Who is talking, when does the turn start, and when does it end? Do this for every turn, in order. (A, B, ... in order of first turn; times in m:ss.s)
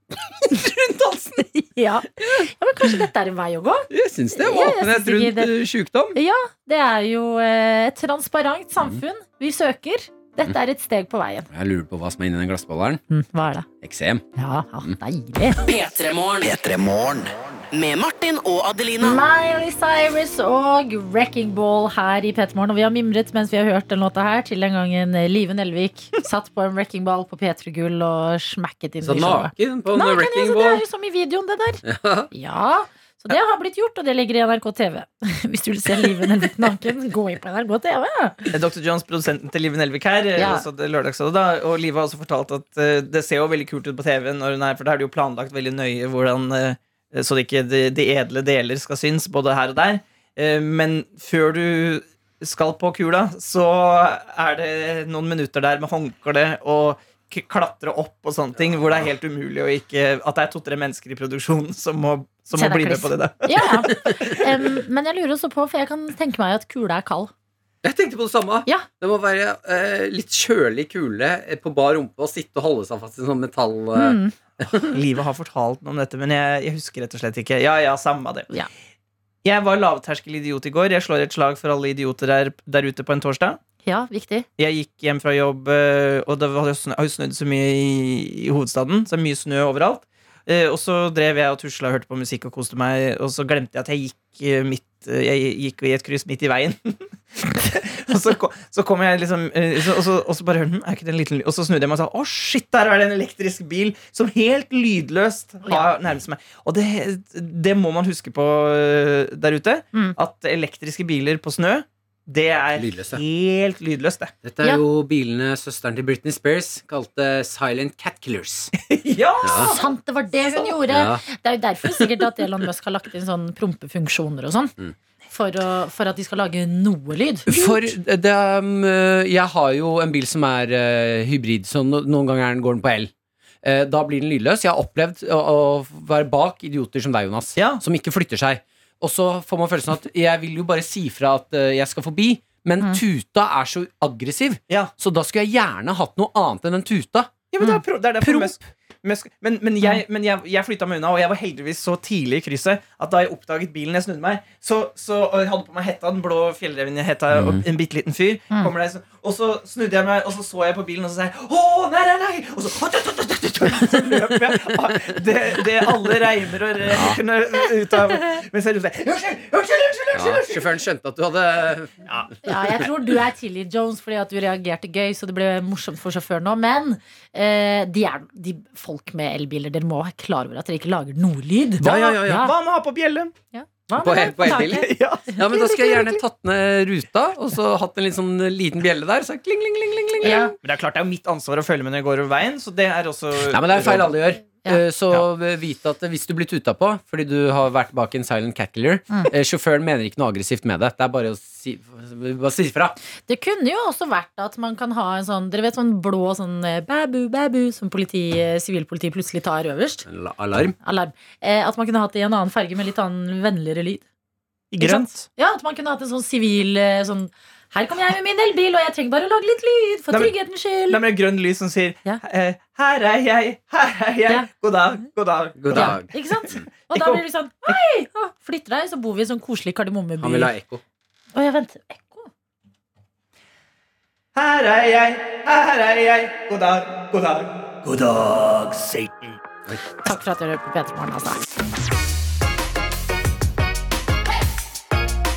0:00.4-0:01.5 A
0:01.6-0:11.5 B
0:03.9-0:06.2 A
0:11.5-0:13.0 A
0:13.1-0:13.7 B
0:13.8-0:14.2 A
0:14.4-0:15.6 B
0:15.6-0:19.2 C
0:19.0-0:38.5 B
0:29.0-0:30.8 A
0:31.8-0:32.3 A
0:38.5-1:04.3 D
0:40.4-0:40.6 B
1:02.6-1:07.3 B
1:07.8-1:14.9 A
1:13.9-1:14.3 B
1:14.8-1:18.5 D
1:19.4-1:23.6 D
1:23.8-1:24.5 B
1:24.6-1:54.3 D
1:52.8-1:53.2 A
1:54.4-1:58.7 A
1:58.9-1:59.9 D
1:59.4-1:59.7 A
1:59.4-2:04.7 B
2:00.9-2:01.2 A
2:05.3-2:07.7 B
2:07.5-2:13.1 A
2:13.6-2:27.3 A
2:17.6-2:17.8 D
2:27.5-2:50.7 D
2:28.2-2:28.5 A
2:37.3-2:37.6 A
2:46.9-2:47.2 A
2:50.1-2:51.9 A
2:52.1-2:52.3 D
2:52.4-3:02.5 B
3:01.8-3:03.3 D
3:01.8-3:02.5 A
3:03.5-3:06.1 B
3:04.0-3:10.6 A
3:04.4-3:05.9 D
3:10.2-3:10.5 B
3:10.2-3:14.1 D
3:13.4-3:23.0 A
3:23.3-3:30.1 B
3:30.1-3:30.7 A
3:30.8-3:34.0 B
3:34.7-3:35.2 D
3:34.8-3:41.0 B
3:40.9-3:46.0 D
3:45.6-3:46.6 A
3:45.7-3:50.5 B
3:46.9-3:47.8 D
3:50.2-3:50.8 A
3:51.3-3:52.3 B
3:54.3-3:59.3 D
3:59.7-4:00.1 A
4:00.0-4:01.4 B